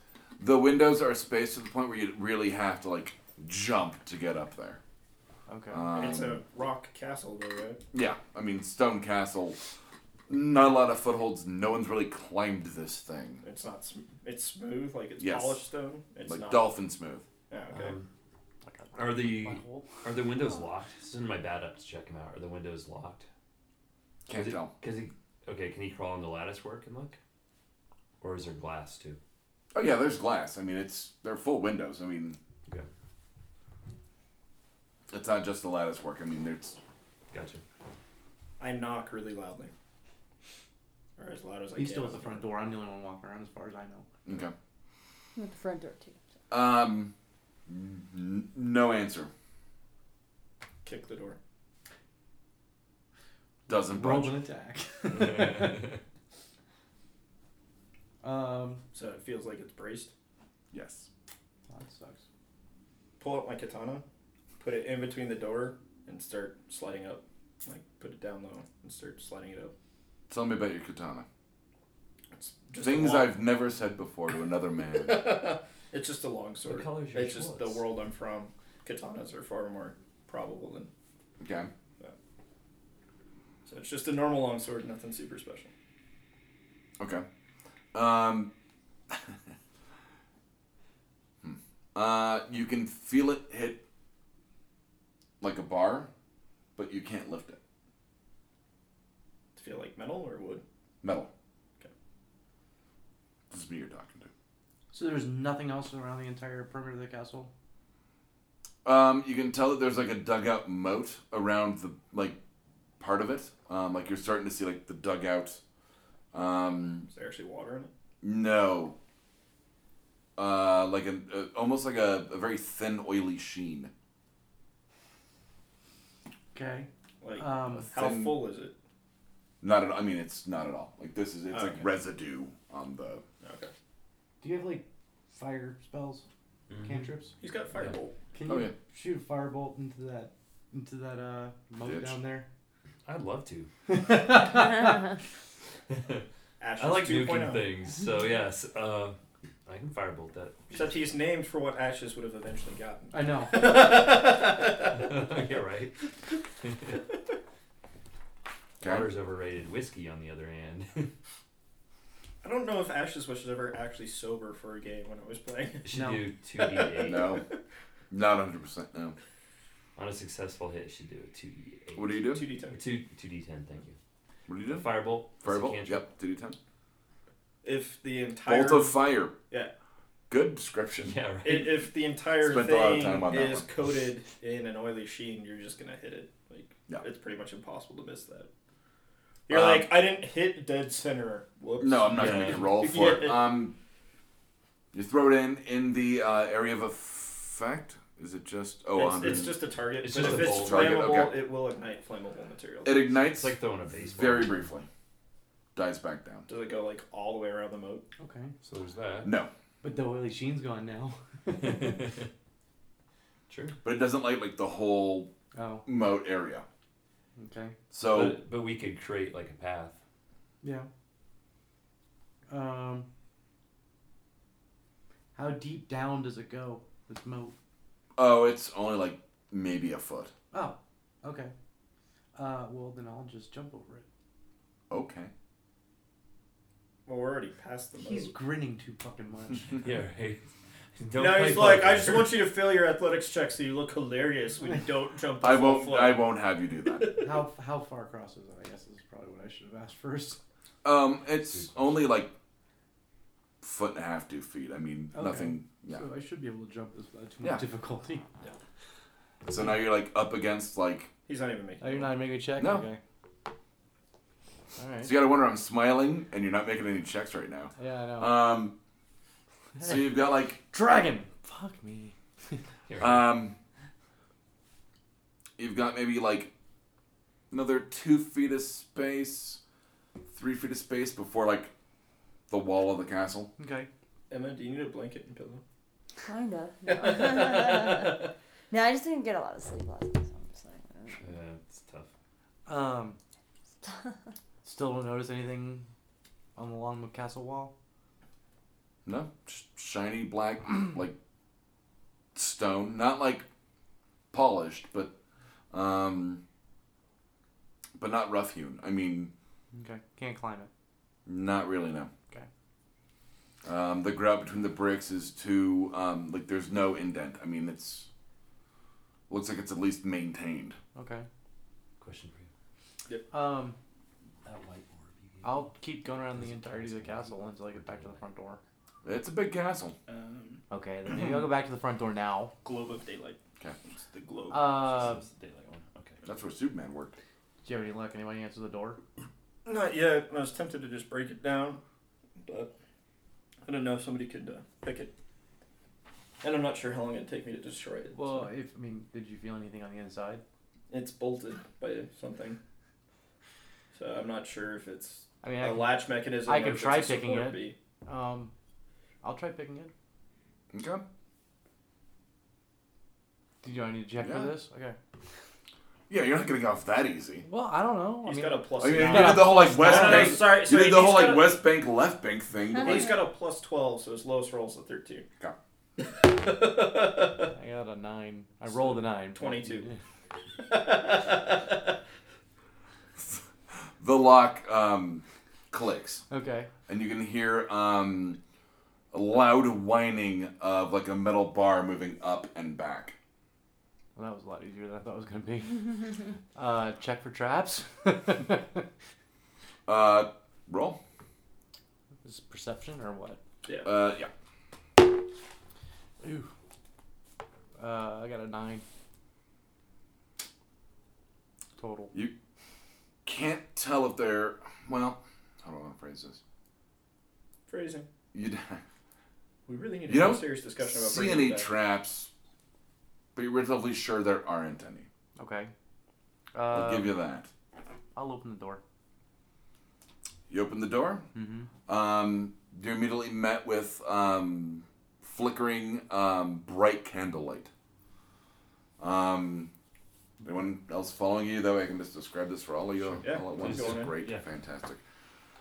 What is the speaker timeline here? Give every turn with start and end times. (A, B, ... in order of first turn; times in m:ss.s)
0:00.4-0:04.8 A
0:05.5-0:05.9 B
0:05.7-0:06.4 A
0:05.9-0:07.8 C
0:07.9-0:09.6 A
0:10.3-0:13.4 A
0:13.4-0:16.7 C
0:15.2-0:15.6 A
0:16.2-0:17.2 A
0:17.5-0:18.0 C
0:17.7-0:18.1 D
0:18.6-0:19.9 B
0:19.0-0:23.2 D
0:24.3-0:24.7 A
0:24.3-0:27.2 D
0:28.2-0:29.2 D
0:29.7-0:32.4 A
0:35.1-0:36.8 A
0:37.3-0:37.6 D
0:38.6-0:39.7 C
0:41.2-0:42.5 C
0:41.8-0:44.1 B
0:44.2-0:44.5 A
0:45.4-0:46.2 E
0:46.5-0:47.1 A
0:47.7-0:49.3 A
0:50.8-0:51.4 C
0:53.7-0:54.4 A
0:53.7-0:56.0 B
0:55.1-0:56.0 D
0:58.2-0:58.8 B
0:58.9-1:00.1 C
1:00.7-1:01.1 A
1:01.7-1:02.2 B
1:03.2-1:04.0 C
1:04.6-1:09.7 C
1:10.3-1:11.2 A
1:12.4-1:13.4 C
1:12.8-1:15.5 A
1:15.0-1:20.9 C
1:16.6-1:17.8 D
1:21.4-1:21.7 A
1:23.6-1:25.7 C
1:27.0-1:27.2 A
1:27.9-1:28.5 A
1:29.1-1:29.3 A
1:31.4-1:33.8 A
1:35.4-1:36.1 A
1:36.8-1:37.6 A
1:39.6-1:40.6 C
1:41.0-1:41.3 A
1:43.5-1:44.3 A
1:44.9-1:47.5 B
1:48.8-1:52.4 A
1:53.0-1:55.6 A
1:56.3-1:57.1 A
1:57.0-1:57.9 C
1:58.2-1:59.0 A
2:00.4-2:03.9 A
2:06.5-2:07.9 B
2:07.2-2:08.7 C
2:07.7-2:08.4 A
2:09.6-2:13.2 A
2:11.5-2:11.9 C
2:13.4-2:13.7 C
2:14.4-2:16.2 B
2:16.7-2:17.1 D
2:16.8-2:17.3 B
2:17.4-2:18.1 C
2:18.3-2:22.4 B
2:18.4-2:18.7 A
2:21.8-2:22.2 A
2:23.0-2:23.7 D
2:23.9-2:25.0 B
2:25.9-2:26.2 D
2:26.6-2:27.7 C
2:26.8-2:30.9 D
2:30.7-2:35.2 C
2:33.1-2:33.7 B
2:34.9-2:36.0 D
2:36.6-2:37.0 D
2:38.8-2:39.1 A
2:38.8-2:41.1 D
2:42.4-2:45.8 C
2:45.8-2:47.3 D
2:45.9-2:46.2 B
2:46.6-2:47.4 C
2:47.0-2:47.4 A
2:48.1-2:49.2 A
2:50.0-2:54.0 D
2:52.0-2:52.4 A
2:52.3-2:52.8 C
2:54.5-2:56.6 A
2:54.7-2:56.0 D
2:57.6-2:59.0 C
2:58.4-2:59.3 A
3:00.3-3:01.2 A
3:01.0-3:01.9 D
3:01.4-3:08.5 C
3:02.4-3:03.7 A
3:09.5-3:13.6 C
3:09.5-3:09.9 A
3:11.8-3:13.7 A
3:12.1-3:12.8 D
3:14.9-3:19.6 A
3:18.9-3:23.0 C
3:20.0-3:21.2 D
3:20.1-3:21.4 A
3:22.8-3:23.5 A
3:23.4-3:24.6 D
3:24.1-3:24.9 A
3:25.7-3:26.5 A
3:26.5-3:28.0 C
3:28.2-3:28.5 B
3:28.6-3:29.3 D
3:29.2-3:29.5 A
3:29.8-3:32.0 B
3:31.5-3:32.3 D
3:33.5-3:33.8 D
3:33.8-3:35.3 A
3:35.5-3:35.8 B
3:35.8-3:36.6 A
3:37.4-3:37.7 B
3:37.9-3:38.4 A
3:38.0-3:40.0 D
3:40.6-3:40.9 B
3:42.5-3:43.1 B
3:45.3-3:47.5 B
3:48.2-3:50.3 A
3:50.5-3:51.5 B
3:52.3-3:54.0 B
3:54.9-3:55.3 A
3:57.0-3:58.3 C
3:58.0-3:59.8 B
3:59.8-4:00.4 D
4:01.0-4:02.4 D
4:01.1-4:06.3 C
4:05.4-4:07.2 A
4:07.0-4:07.3 C
4:07.2-4:10.4 B
4:10.8-4:12.3 A
4:11.5-4:12.0 D
4:13.6-4:16.0 A
4:15.1-4:18.2 B
4:19.4-4:21.1 A
4:21.3-4:22.2 C
4:21.8-4:23.0 B
4:22.6-4:22.8 A
4:24.8-4:25.1 B
4:25.0-4:28.8 A
4:27.8-4:28.4 B
4:29.8-4:30.0 B
4:29.8-4:30.6 A
4:30.6-4:32.1 B
4:32.9-4:33.4 D
4:33.0-4:33.6 A
4:35.6-4:36.5 A
4:37.5-4:39.6 A
4:40.3-4:41.7 A
4:42.5-4:43.5 A
4:43.6-4:43.9 B
4:44.3-4:45.6 C
4:46.2-4:51.2 E
4:47.0-4:48.2 C
4:51.2-4:52.1 D
4:52.6-4:53.2 B
4:53.8-4:54.1 E
4:54.6-4:55.9 B
4:56.6-4:57.7 B
4:59.0-5:01.2 A
5:02.3-5:03.4 A
5:04.3-5:05.1 A
5:05.7-5:06.4 A
5:08.0-5:09.3 A
5:09.7-5:10.7 B
5:11.2-5:12.1 A
5:13.6-5:18.1 A
5:19.3-5:20.8 A
5:20.9-5:21.2 B
5:22.0-5:22.5 D
5:23.3-5:23.8 B
5:24.4-5:28.2 D
5:25.4-5:28.6 B
5:29.0-5:30.0 A
5:30.1-5:30.6 C
5:30.7-5:32.5 B
5:31.1-5:31.4 A
5:32.6-5:34.9 C
5:34.5-5:35.2 B
5:34.8-5:36.2 D
5:36.2-5:37.1 A
5:37.6-5:39.0 B
5:39.6-5:41.8 C
5:42.4-5:42.7 C
5:43.6-5:45.1 C
5:46.4-5:48.5 C
5:48.1-5:50.4 B
5:50.9-5:52.6 C
5:53.9-5:57.8 C
5:55.4-5:58.5 B
5:59.2-5:59.9 B
6:00.7-6:01.0 A
6:03.6-6:05.0 B
6:04.2-6:04.5 A
6:06.1-6:07.4 A
6:07.4-6:10.4 B
6:08.2-6:11.6 C
6:08.8-6:13.1 A
6:12.8-6:15.2 C
6:16.0-6:17.5 C
6:17.5-6:20.0 B
6:19.3-6:19.8 C
6:20.6-6:21.9 C
6:24.0-6:26.2 A
6:26.3-6:26.7 B
6:26.9-6:28.4 A
6:29.1-6:33.1 A
6:34.2-6:38.9 B
6:39.9-6:41.0 A
6:42.2-6:43.4 B
6:43.8-6:44.3 A
6:46.2-6:46.5 B
6:47.8-6:48.8 B
6:51.8-6:52.1 B
6:53.2-6:56.4 A
6:57.7-6:58.1 C
6:58.3-6:58.8 A
6:59.6-7:01.7 C
7:00.1-7:02.3 A
7:03.3-7:05.1 A
7:05.4-7:05.7 B
7:06.5-7:07.1 B
7:06.7-7:07.5 A
7:08.1-7:08.8 B
7:10.5-7:11.2 A
7:11.3-7:11.7 B
7:11.9-7:17.7 A
7:19.0-7:19.7 A
7:20.4-7:25.0 A
7:23.2-7:24.2 C
7:23.5-7:24.4 D